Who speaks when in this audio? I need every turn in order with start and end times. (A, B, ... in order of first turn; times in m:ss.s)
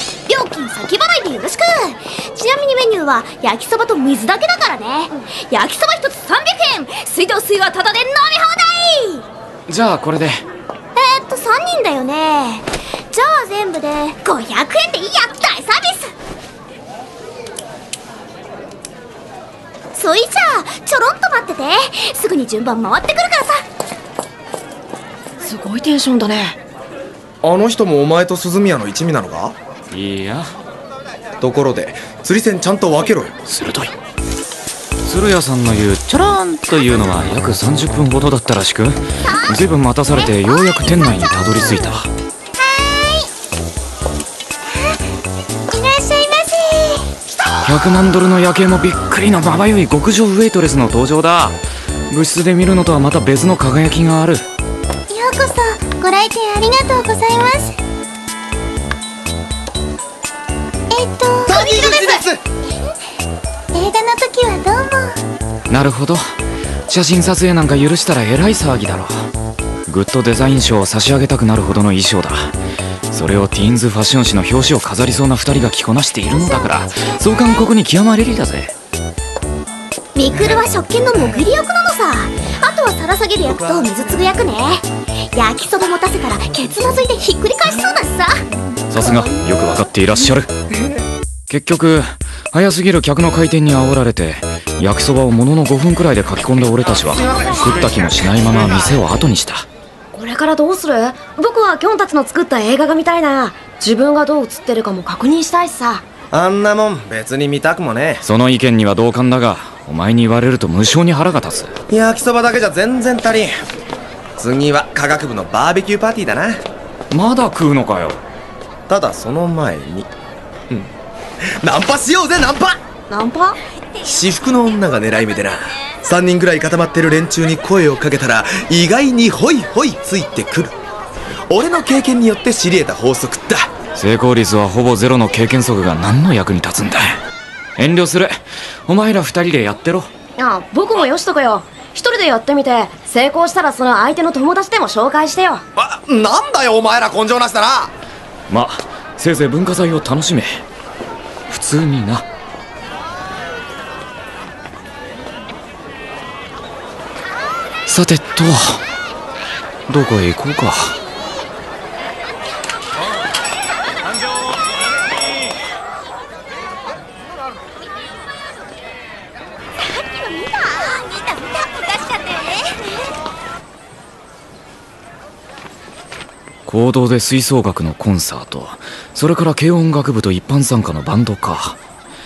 0:00.3-0:09.2 A
0:09.7-0:10.4 B
0:11.0-0:16.1 A
0:20.0-0:23.6 A
0:25.4-0:26.6 C
0:27.4-0:29.6 D
0:29.9-0:30.6 B
0:31.4-0:33.4 D
0:33.5-0:33.9 B
0:35.0-0:42.1 B
0:40.7-0:41.5 A
0:42.8-0:43.3 A
0:45.7-0:47.1 A
0:47.6-0:51.6 B
0:52.1-0:54.5 B
0:55.1-0:57.7 A
1:00.9-1:02.2 A
1:01.4-1:02.4 D
1:03.8-1:05.0 A
1:05.7-1:06.3 B
1:06.9-1:09.3 B
1:09.9-1:12.5 B
1:13.1-1:18.7 B
1:20.2-1:28.3 A
1:28.9-1:30.5 B
1:31.5-1:39.7 B
1:37.2-1:37.9 D
1:40.1-1:46.0 C
1:46.3-1:48.2 D
1:48.2-1:51.7 B
1:51.9-1:53.5 D
1:54.4-1:56.6 D
1:57.1-1:58.2 B
1:58.9-2:00.1 D
2:01.6-2:02.8 D
2:03.1-2:03.6 C
2:04.0-2:10.7 D
2:11.5-2:13.7 D
2:14.0-2:17.2 B
2:17.8-2:20.1 B
2:20.4-2:25.6 C
2:25.8-2:27.9 D
2:28.5-2:30.6 B
2:31.5-2:32.2 B
2:37.9-2:38.8 B
2:39.9-2:41.0 B
2:49.8-2:52.7 A
2:56.7-3:01.8 B